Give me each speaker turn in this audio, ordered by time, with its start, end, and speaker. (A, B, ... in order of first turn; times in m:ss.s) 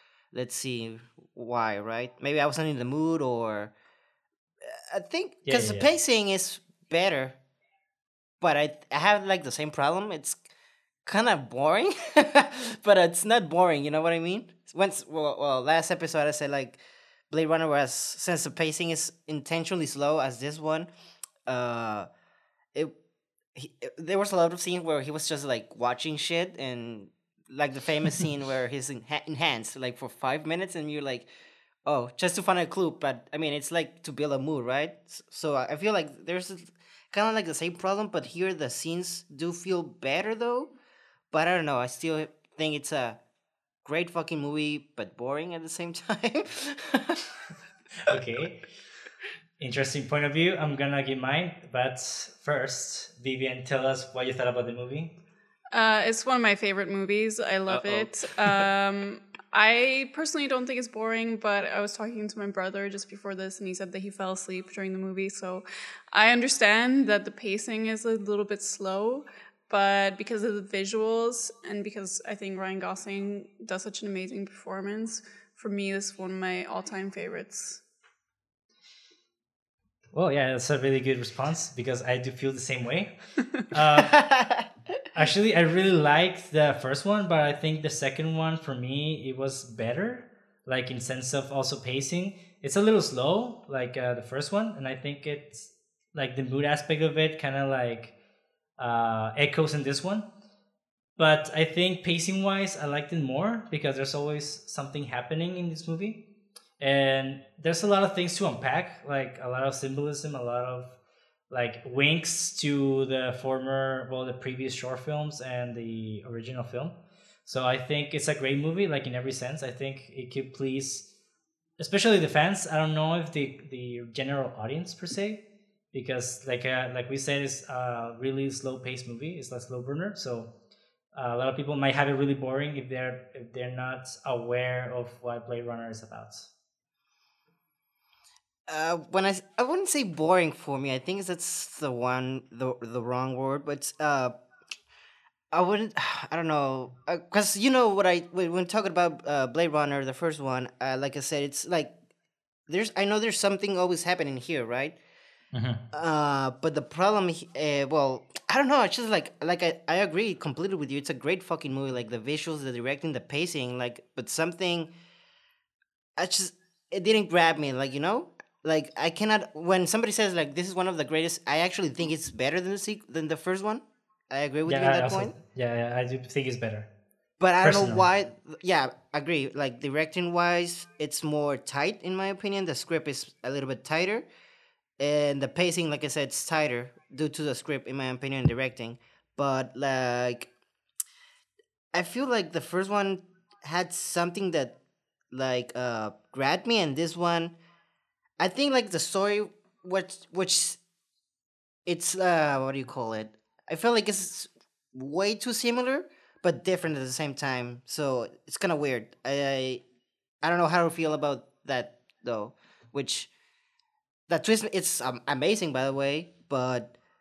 0:00.3-0:03.7 A
0:04.6-0:07.4 A
0:05.4-0:05.9 B
0:08.4-0:10.4 A
0:11.0-0:16.8 A
0:17.3-0:20.9 A
0:21.4-0:22.1 A
0:23.5-0:31.3 A
0:31.8-0:40.7 A
0:41.3-0:43.2 A
0:43.8-0:47.3 A
0:48.0-0:48.6 B
0:49.6-0:55.2 B
0:55.7-1:17.8 C
0:57.7-0:58.6 A
1:20.1-1:23.1 B
1:23.7-1:24.2 B
1:24.0-1:24.7 A
1:25.1-1:38.1 B
1:38.8-1:40.3 B
1:41.2-1:46.2 B
1:46.8-1:51.0 B
1:51.5-2:01.1 B
2:01.8-2:10.5 B
2:11.1-2:16.5 B
2:18.7-2:24.3 A
2:25.5-2:31.9 A
2:32.7-2:35.0 A
2:35.5-2:35.8 B
2:35.9-2:44.9 A
2:46.2-2:55.3 A
2:54.7-2:56.9 B
2:57.4-3:04.2 A
2:57.6-2:58.0 B
3:05.0-3:10.5 A
3:11.9-3:14.8 A
3:15.3-3:17.5 A
3:18.4-3:20.8 A
3:21.8-3:29.8 A
3:30.4-3:33.3 A
3:34.3-3:36.9 A